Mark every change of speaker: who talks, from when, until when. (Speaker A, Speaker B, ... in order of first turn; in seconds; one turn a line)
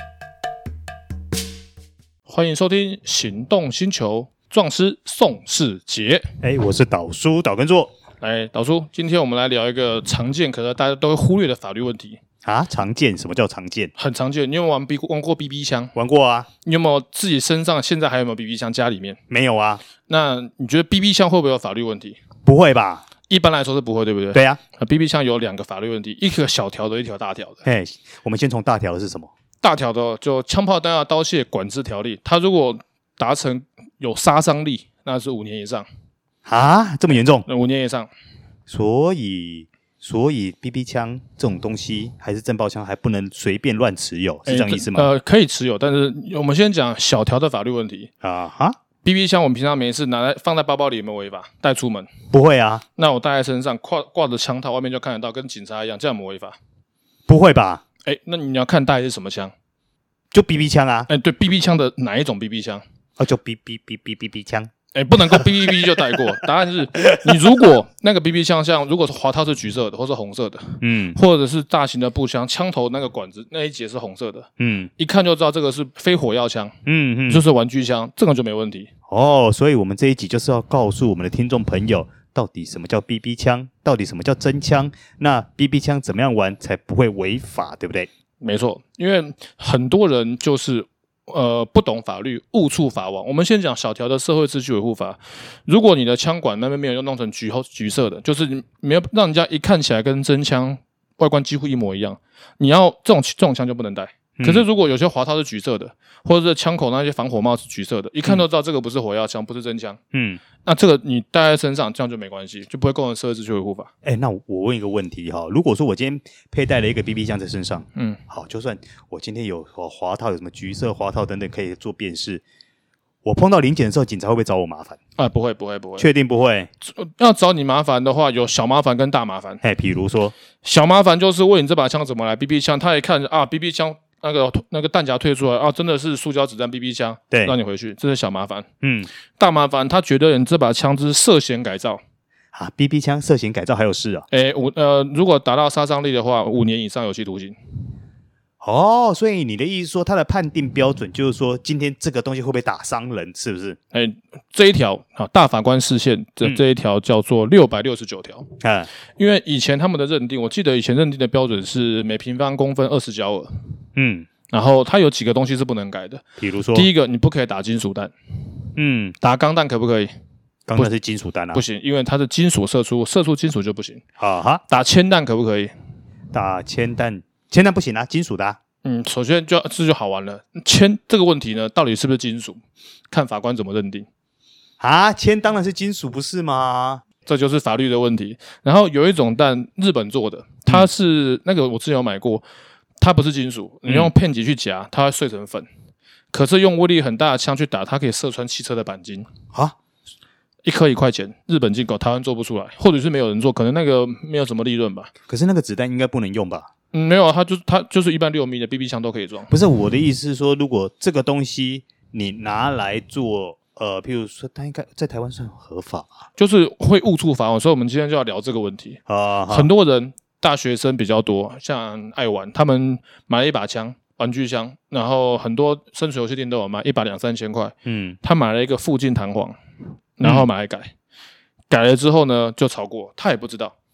Speaker A: 2.3-6.2
Speaker B: 6.4-7.9
Speaker A: 8.2-12.2
Speaker B: 12.4-13.9
Speaker A: 14.0-15.9
Speaker B: 15.9-16.5
Speaker A: 16.6-19.2
Speaker B: 19.3-19.8
Speaker A: 20.1-22.2
Speaker B: 22.4-23.1
Speaker A: 23.3-27.6
Speaker B: 24.3-24.6
Speaker B: 27.6-29.3
Speaker A: 29.6-35.9
Speaker B: 36.5-37.5
Speaker A: 37.5-38.1
Speaker B: 38.7-45.1
Speaker A: 44.5-48.1
Speaker B: 48.2-48.8
Speaker A: 49.0-52.1
Speaker B: 52.3-52.8
Speaker A: 53.0-56.6
Speaker B: 57.3-57.8
Speaker A: 58.0-59.5
Speaker B: 60.3-61.1
Speaker A: 61.1-62.8
Speaker B: 63.2-64.7
Speaker A: 64.9-76.7
Speaker B: 65.2-66.2
Speaker B: 67.1-67.6
Speaker B: 70.8-71.2
Speaker B: 74.6-74.9
Speaker B: 76.9-77.4
Speaker A: 77.3-78.9
Speaker B: 79.1-88.1
Speaker A: 88.4-110.0
Speaker B: 104.4-104.7
Speaker B: 110.1-110.4
Speaker A: 110.6-113.9
Speaker B: 114.0-122.4
Speaker B: 123.2-125.0
Speaker A: 125.2-126.1
Speaker B: 126.0-126.7
Speaker A: 126.8-129.6
Speaker B: 129.6-130.3
Speaker A: 130.6-138.7
Speaker B: 138.8-139.1
Speaker A: 139.4-142.0
Speaker B: 142.5-144.3
Speaker A: 144.3-147.6
Speaker B: 148.6-153.8
Speaker A: 153.9-158.5
Speaker B: 158.6-158.9
Speaker A: 159.2-163.5
Speaker B: 163.9-164.3
Speaker A: 164.5-166.2
Speaker B: 166.4-166.9
Speaker A: 166.7-168.1
Speaker B: 168.8-169.2
Speaker A: 169.2-170.1
Speaker B: 170.7-171.6
Speaker A: 171.5-174.0
Speaker B: 174.2-174.6
Speaker A: 174.7-175.7
Speaker B: 176.3-178.6
Speaker A: 178.8-182.6
Speaker A: 183.1-184.1
Speaker B: 184.8-187.0
Speaker A: 187.2-192.4
Speaker A: 193.0-195.7
Speaker B: 193.9-194.1
Speaker A: 196.3-199.3
Speaker A: 200.6-205.1
Speaker B: 205.3-206.7
Speaker A: 206.9-209.5
Speaker B: 209.5-216.2
Speaker A: 216.4-229.6
Speaker B: 219.1-219.7
Speaker B: 227.9-228.2
Speaker A: 230.2-230.9
Speaker A: 231.7-233.8